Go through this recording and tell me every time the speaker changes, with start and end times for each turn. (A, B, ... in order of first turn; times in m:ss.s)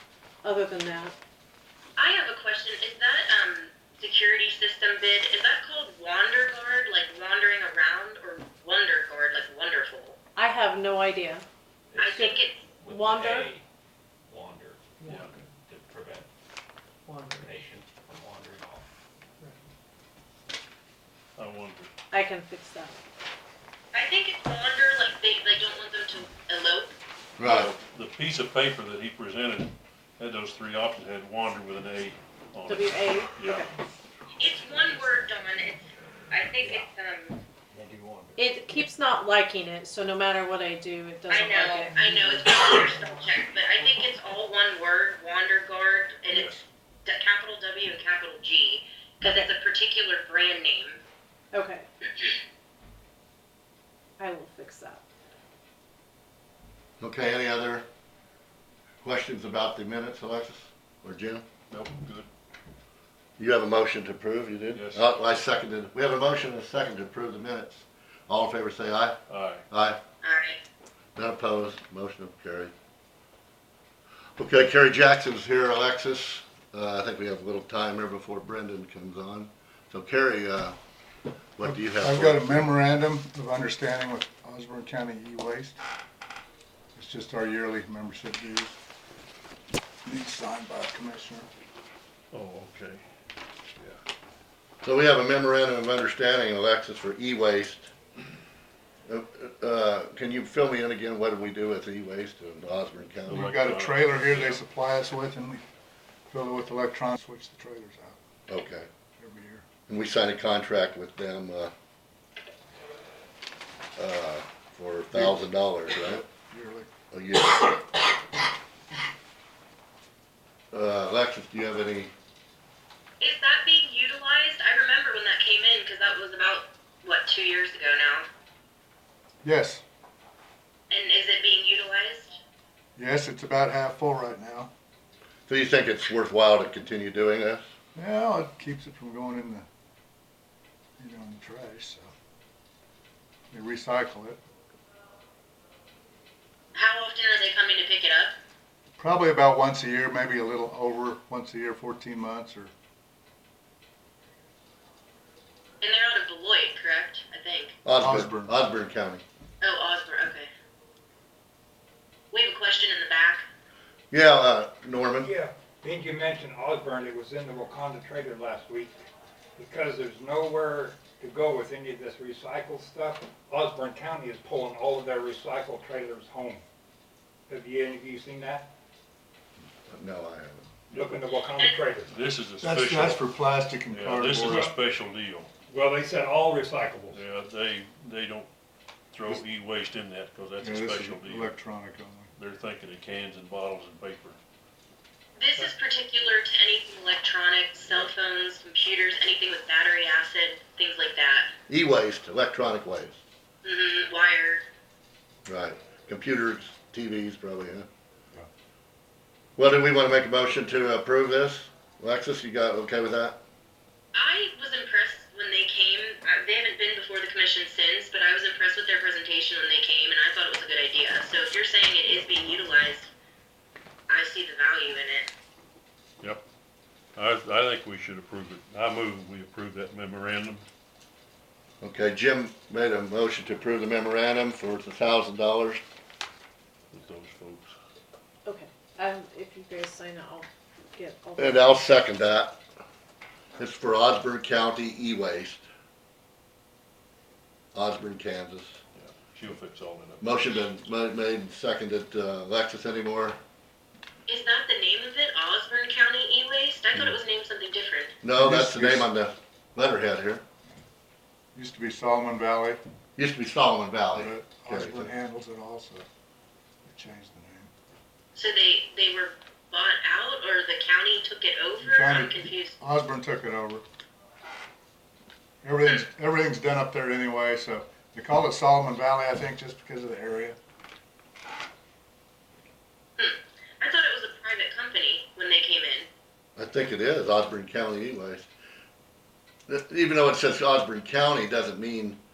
0:00.4-0:01.1 A
0:02.0-0:10.2 B
0:10.4-0:11.4 A
0:11.9-0:12.6 B
0:12.0-0:13.5 A
0:12.7-0:13.6 C
0:14.3-0:16.3 C
0:15.0-0:15.4 A
0:17.0-0:17.5 A
0:17.3-0:18.8 C
0:21.4-0:21.9 D
0:22.1-0:23.0 A
0:23.9-0:26.9 B
0:27.4-0:27.7 E
0:27.4-0:33.7 D
0:32.7-0:33.7 A
0:34.4-0:37.4 B
0:37.7-0:38.3 F
0:38.4-0:43.2 A
0:41.3-0:51.0 B
0:46.3-0:46.6 D
0:51.5-0:51.8 A
0:54.2-0:55.0 A
0:57.0-0:57.8 E
0:59.0-1:01.4 E
1:01.7-1:02.3 D
1:03.4-1:09.2 E
1:04.7-1:05.0 D
1:09.3-1:09.6 D
1:09.7-1:10.0 E
1:10.2-1:10.6 B
1:11.2-1:12.7 E
1:14.4-1:20.8 E
1:21.6-1:22.6 E
1:21.6-1:25.8 G
1:27.0-1:28.8 G
1:30.0-1:31.5 G
1:32.3-1:33.0 D
1:34.8-1:37.9 E
1:39.1-1:43.5 E
1:43.2-1:44.6 D
1:43.4-1:45.6 G
1:46.3-1:48.2 G
1:48.5-1:48.9 E
1:49.2-1:49.7 G
1:49.9-1:51.7 E
1:54.0-1:56.2 E
1:56.5-1:56.9 G
1:57.1-1:57.8 E
2:00.7-2:02.1 E
2:03.2-2:08.2 B
2:09.4-2:09.8 G
2:10.9-2:12.4 B
2:13.0-2:14.7 G
2:15.5-2:17.6 E
2:17.9-2:19.6 G
2:21.0-2:22.1 G
2:23.5-2:24.4 G
2:26.7-2:28.4 B
2:29.0-2:32.7 G
2:35.8-2:37.8 B
2:37.8-2:39.2 E
2:37.9-2:38.5 G
2:39.6-2:40.5 B
2:42.3-2:43.5 B
2:44.1-2:45.3 E
2:45.2-2:49.0 F
2:49.6-2:56.6 F
2:57.5-2:58.7 F
2:59.8-3:00.7 E
3:00.9-3:02.1 F
3:01.6-3:01.8 B
3:02.1-3:05.5 D
3:02.6-3:04.6 G
3:04.4-3:04.8 F
3:05.7-3:07.2 F
3:07.1-3:08.5 D
3:09.1-3:11.6 D
3:10.6-3:12.3 G
3:12.4-3:14.4 D
3:15.3-3:21.5 B
3:21.7-3:23.2 E
3:23.6-3:24.6 B
3:25.4-3:27.9 E
3:29.6-3:33.4 E
3:34.1-3:43.1 B
3:44.1-3:45.3 B
3:47.2-3:50.6 D
3:51.8-3:55.8 E
3:56.9-3:57.7 D
3:58.4-4:01.8 A
4:01.4-4:02.6 E
4:03.6-4:05.6 E
4:07.7-4:08.8 E
4:08.9-4:10.2 D
4:10.2-4:13.4 E
4:14.3-4:18.2 B
4:18.2-4:20.4 E
4:18.4-4:19.0 G
4:21.5-4:22.8 G
4:23.2-4:25.1 E
4:24.2-4:26.1 G
4:26.8-4:27.7 G
4:28.3-4:32.8 B
4:31.9-4:32.2 G
4:32.8-4:33.8 G
4:35.6-4:40.6 G
4:43.2-4:46.1 B
4:46.6-4:48.5 E
4:49.7-4:52.2 E